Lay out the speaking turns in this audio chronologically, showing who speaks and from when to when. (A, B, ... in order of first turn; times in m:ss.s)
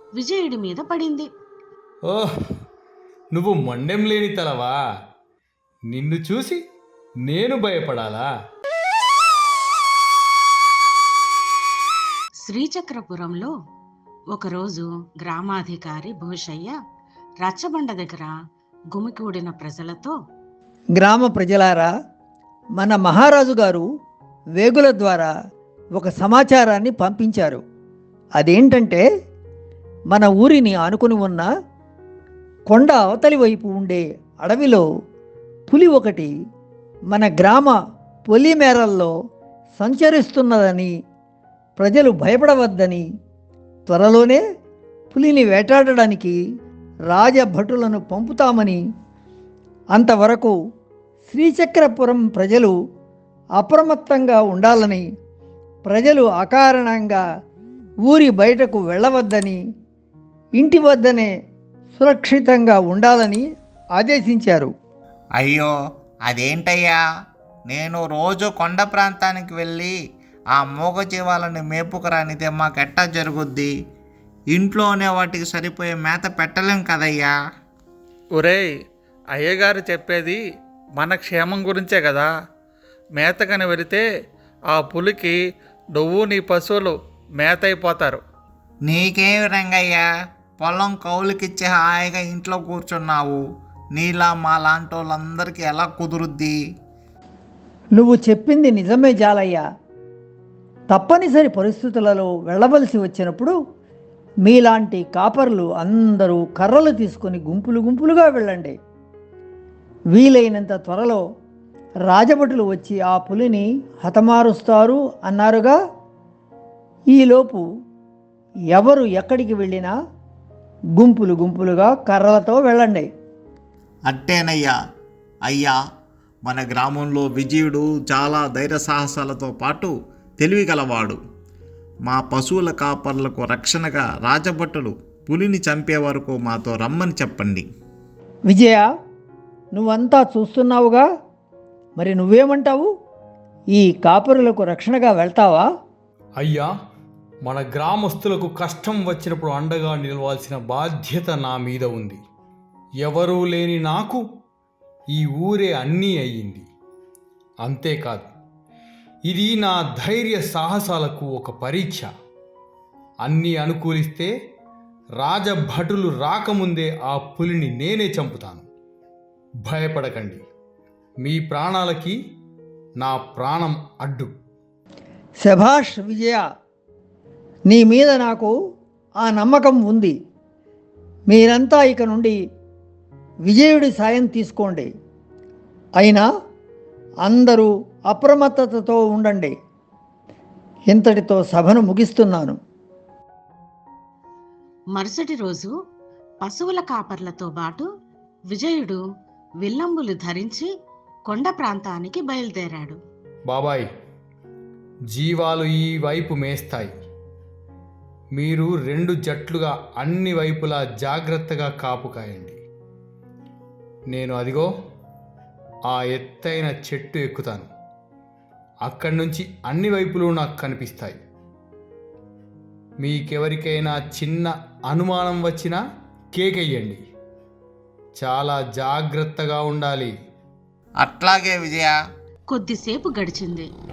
0:00.2-0:01.3 A
0:03.3-0:04.8 B
0:05.9-0:06.6 B
0:07.2-0:08.3 B
0:12.4-0:13.5 A
0:14.3-0:16.7 A
0:17.4-0:18.3 A
0:18.9-0:20.1 A
0:20.9-0:21.9 C
0:22.8-0:23.9 C
0:24.6-0:25.3 C
0:26.0-0:27.6 C
0:28.4-0:29.0 C
0:30.1-0:31.5 C
0:32.7-0:34.8 C
0:35.7-0:36.3 C
0:37.1-0:37.8 C
0:38.3-0:39.1 C
0:39.8-0:40.9 C
0:41.8-0:43.0 C
0:43.9-0:44.4 C
0:45.1-0:46.4 C
0:47.1-0:48.8 C
0:49.9-0:50.5 C
0:51.3-0:52.7 C
0:53.6-0:55.0 C
0:55.8-0:57.2 C
0:58.1-0:59.6 C
1:00.6-1:01.3 C
1:02.0-1:03.4 C
1:04.0-1:04.7 C
1:05.4-1:05.7 D
1:06.3-1:07.0 D
1:07.7-1:09.9 D
1:10.5-1:13.7 D
1:14.5-1:17.3 D
1:18.4-1:18.7 E
1:19.3-1:20.4 E
1:21.0-1:22.3 E
1:23.2-1:24.0 E
1:24.7-1:25.4 E
1:26.0-1:28.2 E
1:28.8-1:30.0 D
1:30.6-1:33.4 D
1:33.9-1:36.6 D
1:38.0-1:39.6 C
1:40.9-1:43.5 C
1:44.4-1:48.7 C
1:50.1-1:51.2 C
1:52.1-1:55.8 C
1:57.1-1:57.6 C
1:58.7-1:59.9 C
2:01.0-2:03.1 C
2:04.1-2:04.8 D
2:05.4-2:05.8 D
2:06.4-2:11.2 D
2:12.0-2:17.6 D
2:18.5-2:18.9 C
2:19.7-2:21.0 C
2:22.0-2:22.9 C
2:23.7-2:25.7 C
2:26.4-2:26.7 B
2:27.4-2:32.2 B
2:33.0-2:34.2 B
2:35.1-2:36.7 B
2:37.6-2:38.3 B
2:39.3-2:42.1 B
2:43.2-2:44.3 B
2:45.2-2:48.7 B
2:49.6-2:50.4 B
2:51.2-2:52.2 B
2:53.0-2:54.3 B
2:55.4-2:56.4 C
2:57.7-2:58.5 C
2:59.2-3:00.1 C
3:01.3-3:02.4 C
3:03.5-3:04.9 C
3:06.0-3:06.2 C
3:07.2-3:09.5 C
3:10.9-3:12.6 C
3:15.0-3:15.7 A
3:16.4-3:17.9 A
3:18.5-3:19.0 A
3:19.6-3:20.7 A
3:21.3-3:23.0 A
3:23.5-3:23.9 B
3:25.1-3:26.9 B
3:28.4-3:32.6 B
3:34.1-3:34.7 B
3:35.9-3:37.7 B
3:38.8-3:41.2 B
3:43.0-3:45.8 B
3:46.3-3:47.0 B
3:48.2-3:50.1 B
3:51.0-3:52.0 D
3:52.5-3:53.7 A